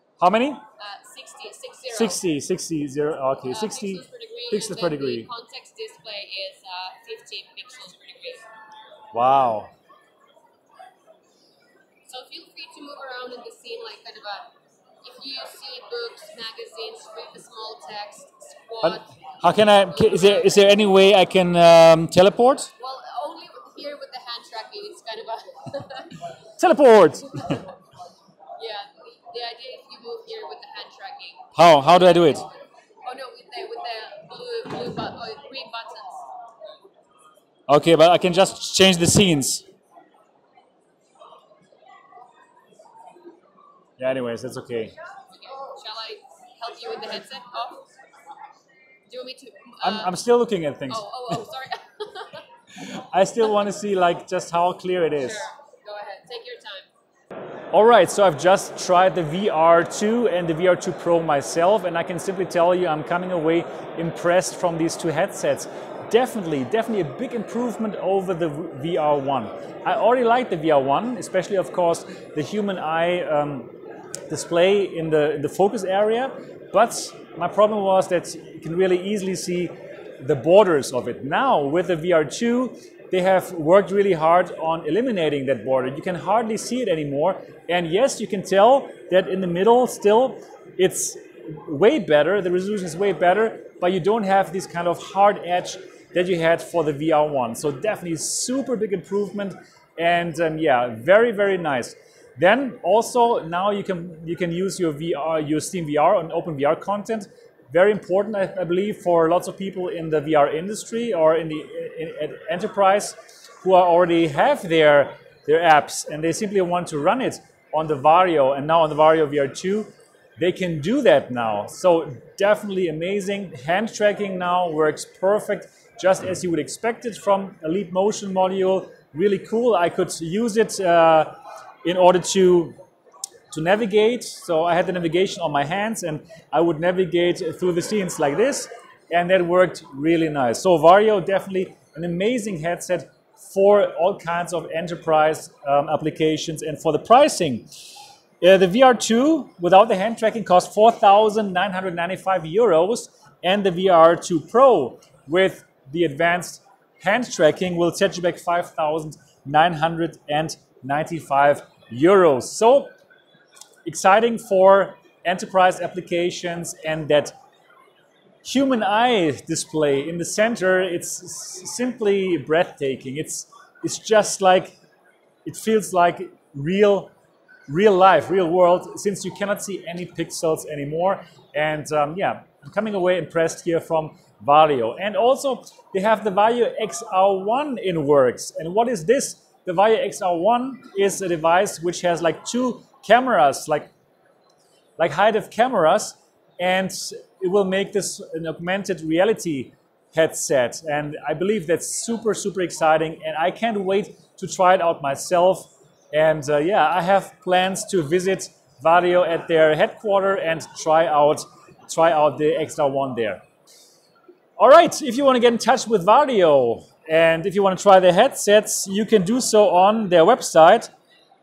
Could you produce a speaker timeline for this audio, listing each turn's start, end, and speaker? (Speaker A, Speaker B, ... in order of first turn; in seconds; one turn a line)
Speaker A: 0.2-0.6
Speaker B: 0.8-2.2
Speaker A: 1.9-5.3
Speaker B: 3.5-8.5
Speaker A: 9.1-9.7
Speaker B: 12.1-20.8
Speaker A: 18.8-22.7
Speaker B: 22.8-26.2
Speaker A: 26.6-27.6
Speaker B: 28.6-32.5
Speaker A: 31.6-32.5
Speaker B: 33.0-36.2
Speaker A: 37.7-39.6
Speaker A: 44.0-45.0
Speaker B: 45.3-47.9
Speaker B: 49.1-50.2
Speaker A: 49.8-51.0
Speaker B: 50.9-52.5
Speaker A: 52.8-55.5
Speaker B: 55.2-56.9
Speaker A: 57.7-73.7
Speaker A: 74.3-132.8
Speaker A: 133.5-147.7
Speaker A: 148.4-162.9
Speaker A: 163.8-167.3
Speaker A: 168.4-174.8
Speaker A: 175.4-177.1
Speaker A: 177.7-193.9
Speaker A: 195.0-213.4
Speaker A: 214.6-220.9